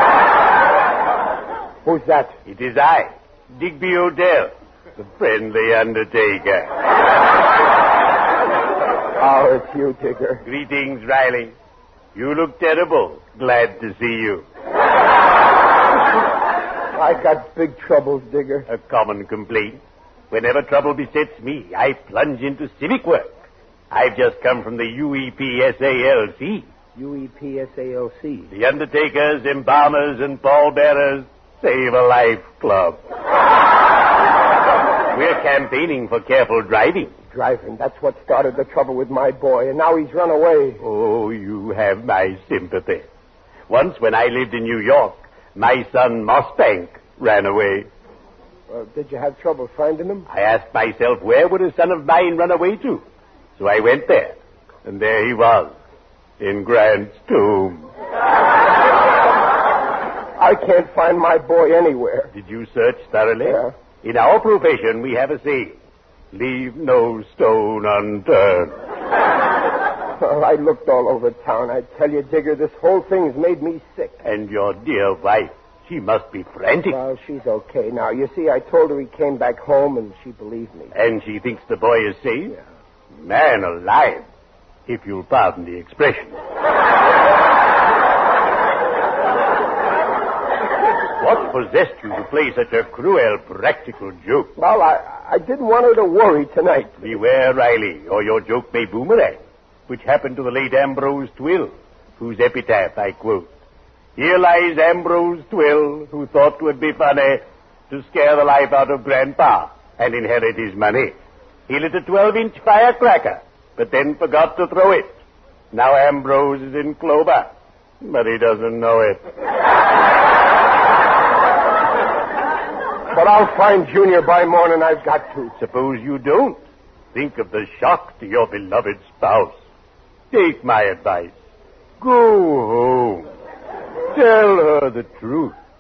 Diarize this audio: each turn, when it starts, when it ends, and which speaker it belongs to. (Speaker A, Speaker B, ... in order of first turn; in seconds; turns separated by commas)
Speaker A: 1.9-2.4, Speaker B: 2.5-6.7, Speaker A: 9.2-10.4, Speaker B: 10.4-11.5, Speaker B: 12.2-14.4, Speaker A: 16.9-18.7, Speaker B: 18.7-23.3, Speaker B: 23.9-26.7, Speaker A: 26.9-28.5, Speaker B: 28.5-33.0, Speaker B: 35.1-37.1, Speaker A: 37.3-40.8, Speaker B: 40.8-43.1, Speaker B: 43.7-47.9, Speaker A: 48.7-50.3, Speaker B: 50.3-53.0, Speaker B: 53.6-55.7, Speaker B: 56.4-57.9, Speaker A: 60.4-62.3, Speaker B: 62.3-65.8, Speaker A: 63.5-63.7, Speaker B: 66.3-68.7, Speaker A: 70.2-74.2, Speaker B: 74.2-77.0, Speaker A: 76.9-80.9, Speaker B: 80.9-82.6, Speaker B: 83.2-84.2, Speaker B: 84.9-86.4, Speaker B: 91.2-94.5, Speaker A: 94.6-97.1, Speaker B: 97.0-103.5, Speaker B: 104.2-111.1, Speaker B: 111.7-115.1, Speaker B: 115.7-119.2, Speaker A: 123.1-125.5, Speaker B: 125.6-126.6, Speaker B: 127.1-129.6, Speaker B: 130.3-131.3, Speaker B: 132.0-133.3, Speaker B: 134.1-135.5